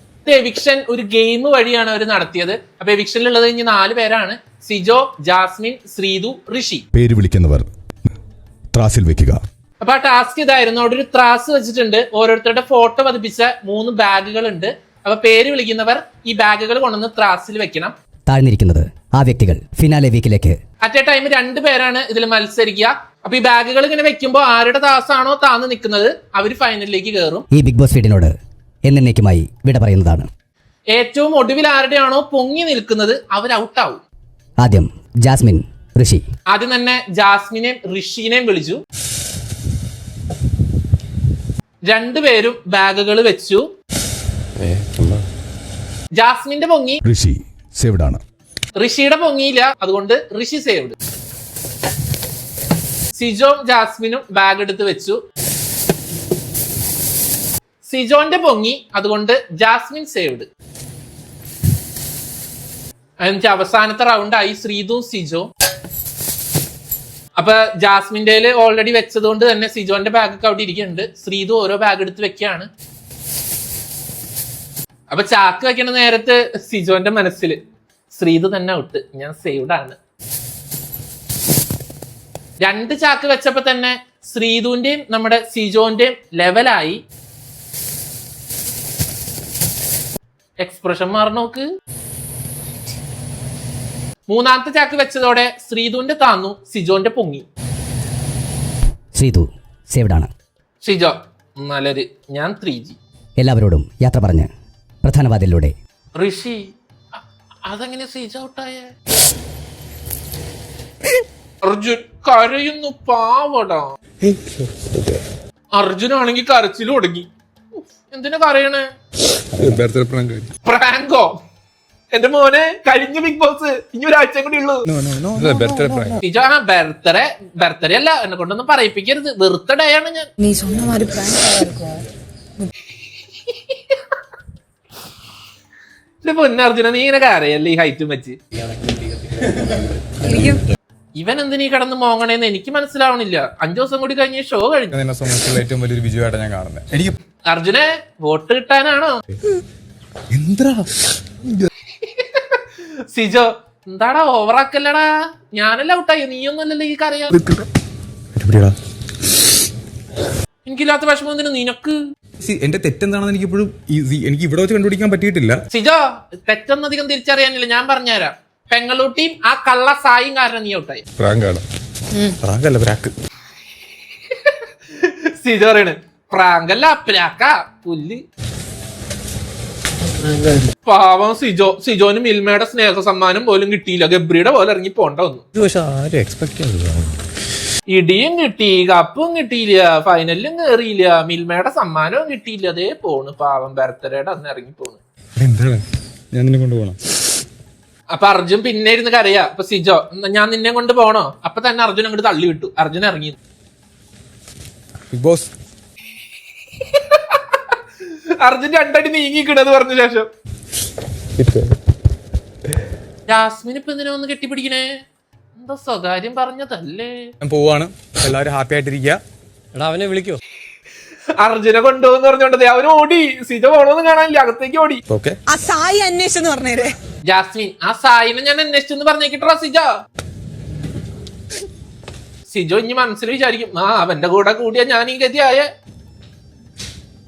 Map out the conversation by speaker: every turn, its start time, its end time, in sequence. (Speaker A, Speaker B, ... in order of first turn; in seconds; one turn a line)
Speaker A: 0.2-6.8
Speaker B: 6.9-7.7
Speaker B: 8.7-9.4
Speaker A: 9.8-17.9
Speaker C: 18.3-20.6
Speaker A: 20.8-27.4
Speaker C: 27.5-28.3
Speaker C: 28.9-30.3
Speaker A: 30.9-34.0
Speaker C: 34.6-36.2
Speaker A: 36.5-38.8
Speaker A: 41.9-43.7
Speaker D: 44.6-45.2
Speaker A: 46.1-47.0
Speaker B: 47.0-48.2
Speaker A: 48.8-51.0
Speaker A: 53.2-55.2
Speaker A: 57.8-60.5
Speaker A: 63.2-65.5
Speaker A: 67.4-72.7
Speaker A: 75.1-77.6
Speaker A: 78.1-80.0
Speaker A: 82.6-87.0
Speaker A: 90.6-91.7
Speaker A: 94.3-97.5
Speaker C: 99.1-100.3
Speaker A: 100.8-103.0
Speaker C: 103.4-104.5
Speaker C: 105.0-105.7
Speaker A: 106.1-108.9
Speaker A: 111.6-114.0
Speaker A: 115.7-118.9
Speaker E: 119.6-120.5
Speaker A: 120.7-121.4
Speaker A: 122.1-124.8
Speaker E: 125.3-126.2
Speaker B: 125.5-125.8
Speaker A: 126.2-130.3
Speaker F: 130.4-132.0
Speaker A: 136.2-138.4
Speaker F: 140.2-140.6
Speaker A: 141.2-144.9
Speaker E: 144.9-146.8
Speaker A: 147.5-149.2
Speaker A: 152.1-152.6
Speaker A: 153.1-157.3
Speaker A: 160.6-162.0
Speaker E: 162.4-165.6
Speaker A: 165.7-171.0
Speaker E: 171.2-171.6
Speaker A: 174.4-178.2
Speaker D: 180.2-180.7
Speaker A: 180.8-185.4
Speaker D: 185.5-187.1
Speaker A: 187.9-195.0
Speaker E: 195.4-195.8
Speaker E: 196.3-197.0
Speaker A: 198.1-203.3
Speaker E: 205.1-205.5
Speaker A: 206.9-207.6
Speaker A: 208.4-210.3
Speaker A: 213.3-215.0
Speaker A: 215.6-217.3
Speaker E: 217.4-219.2
Speaker D: 219.7-220.4
Speaker A: 221.4-225.0
Speaker E: 225.1-225.4
Speaker F: 225.5-226.9
Speaker A: 227.3-229.9
Speaker A: 232.5-235.7